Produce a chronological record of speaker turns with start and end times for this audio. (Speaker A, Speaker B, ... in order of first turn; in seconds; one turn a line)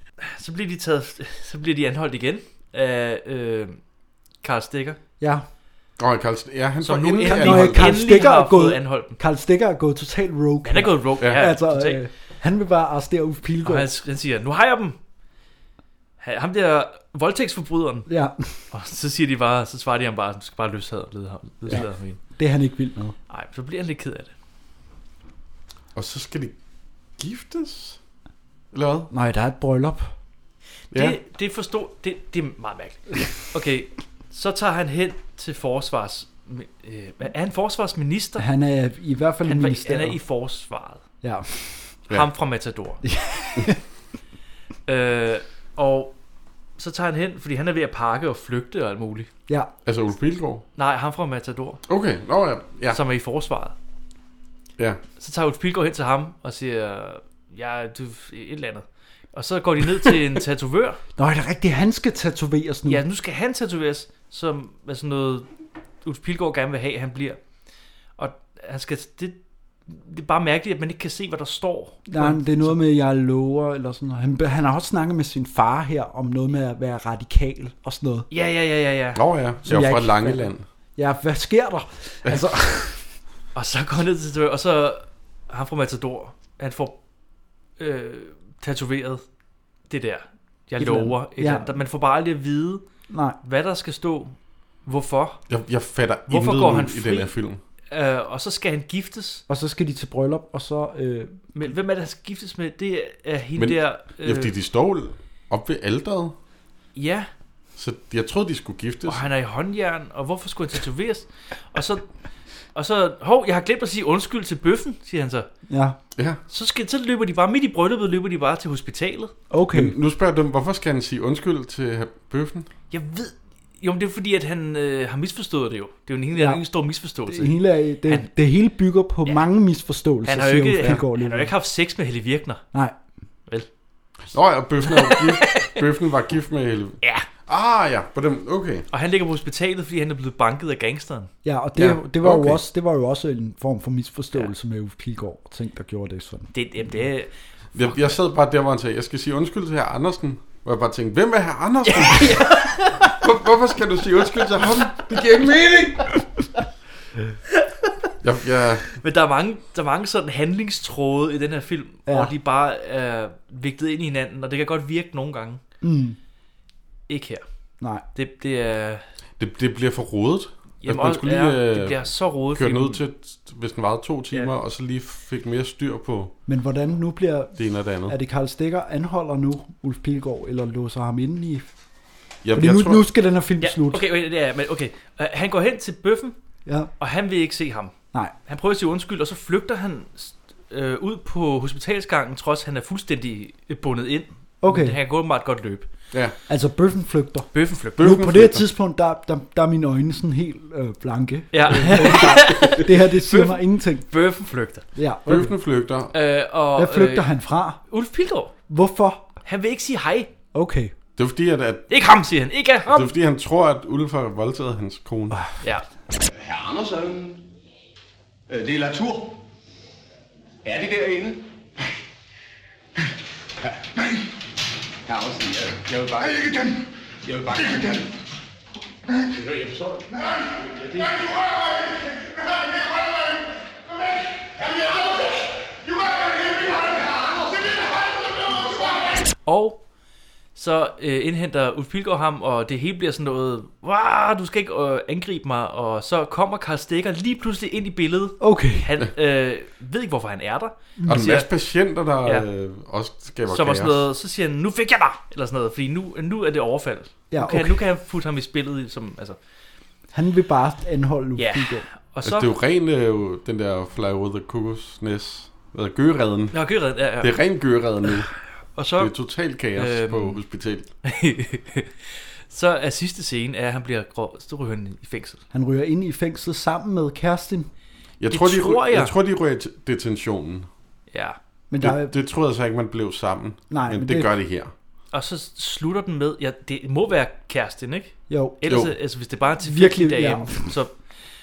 Speaker A: 0.2-3.8
Speaker A: 4.4-5.0
Speaker B: 5.2-5.5
Speaker C: 6.0-8.0
Speaker A: 6.8-9.2
Speaker B: 7.2-13.9
Speaker A: 10.6-12.0
Speaker A: 13.6-15.0
Speaker A: 16.2-18.1
Speaker B: 18.1-18.6
Speaker A: 18.7-22.2
Speaker B: 21.7-23.1
Speaker A: 23.3-24.3
Speaker C: 25.9-26.5
Speaker C: 27.2-28.0
Speaker C: 28.7-29.1
Speaker B: 29.1-30.1
Speaker A: 30.9-38.4
Speaker C: 30.9-31.2
Speaker B: 38.4-40.2
Speaker A: 39.4-41.0
Speaker B: 41.2-42.0
Speaker A: 42.1-43.0
Speaker B: 43.0-43.8
Speaker A: 44.9-46.1
Speaker A: 46.8-49.3
Speaker C: 49.8-50.6
Speaker A: 50.8-51.8
Speaker C: 51.9-53.0
Speaker A: 52.9-53.7
Speaker A: 55.2-61.0
Speaker B: 61.2-63.0
Speaker A: 62.9-65.5
Speaker A: 66.0-67.4
Speaker A: 68.2-72.8
Speaker B: 72.1-78.3
Speaker A: 78.3-79.2
Speaker C: 79.1-80.6
Speaker B: 79.6-83.0
Speaker A: 83.5-87.0
Speaker A: 87.8-89.2
Speaker A: 89.9-92.8
Speaker B: 90.8-91.8
Speaker B: 93.1-93.4
Speaker A: 93.4-95.4
Speaker C: 95.5-97.6
Speaker A: 96.3-97.3
Speaker A: 97.9-99.4
Speaker B: 99.5-101.5
Speaker A: 101.5-104.5
Speaker C: 103.6-106.3
Speaker A: 106.9-107.3
Speaker C: 107.8-109.2
Speaker A: 109.0-112.1
Speaker A: 112.7-115.5
Speaker B: 115.7-116.0
Speaker A: 116.5-119.3
Speaker B: 119.5-119.9
Speaker C: 119.7-122.7
Speaker A: 122.9-128.3
Speaker B: 126.3-126.6
Speaker B: 127.2-131.5
Speaker A: 130.2-132.6
Speaker C: 134.3-138.8
Speaker A: 134.9-135.8
Speaker A: 137.0-137.3
Speaker A: 138.9-141.3
Speaker B: 141.4-146.5
Speaker C: 141.8-142.6
Speaker A: 146.5-147.9
Speaker C: 147.7-156.2
Speaker A: 151.9-153.1
Speaker C: 158.2-158.9
Speaker A: 159.0-165.6
Speaker B: 162.1-162.3
Speaker B: 165.8-166.2
Speaker A: 167.1-167.4
Speaker B: 167.8-168.0
Speaker A: 168.1-169.0
Speaker C: 169.4-176.3
Speaker A: 170.8-173.0
Speaker B: 176.5-181.7
Speaker C: 177.6-178.1
Speaker C: 182.4-183.1
Speaker B: 182.5-184.0
Speaker A: 183.6-186.3
Speaker B: 186.7-186.9
Speaker A: 187.0-187.9
Speaker A: 188.4-195.9
Speaker B: 194.6-195.0
Speaker B: 196.5-204.1
Speaker A: 197.5-198.1
Speaker C: 198.0-198.7
Speaker A: 201.5-204.8
Speaker B: 204.9-205.5
Speaker C: 205.3-206.1
Speaker A: 206.1-207.3
Speaker B: 206.8-207.8
Speaker A: 207.9-208.5
Speaker B: 208.7-209.3
Speaker A: 209.4-210.3
Speaker B: 210.5-210.9
Speaker C: 211.2-211.9
Speaker A: 211.9-213.1
Speaker C: 212.9-215.4
Speaker D: 216.3-217.4
Speaker D: 218.5-219.3
Speaker D: 220.6-221.4
Speaker D: 225.1-226.7
Speaker D: 227.2-228.1
Speaker A: 239.4-239.8
Speaker A: 240.5-251.5
Speaker B: 248.4-248.9
Speaker B: 251.0-251.2
Speaker C: 251.1-254.1
Speaker A: 253.5-259.4
Speaker B: 257.3-257.8
Speaker B: 260.1-261.9
Speaker A: 261.4-262.5
Speaker C: 262.2-268.4
Speaker A: 266.5-267.4
Speaker A: 268.8-269.1
Speaker C: 269.0-270.9
Speaker A: 269.8-270.4
Speaker A: 271.0-275.4
Speaker B: 275.5-277.7
Speaker C: 278.2-280.7
Speaker A: 278.3-279.1
Speaker A: 281.1-281.4
Speaker B: 281.7-282.1
Speaker C: 281.8-284.7
Speaker B: 283.7-284.3
Speaker A: 285.1-290.9
Speaker B: 288.3-288.6
Speaker C: 288.7-288.9
Speaker B: 289.6-290.7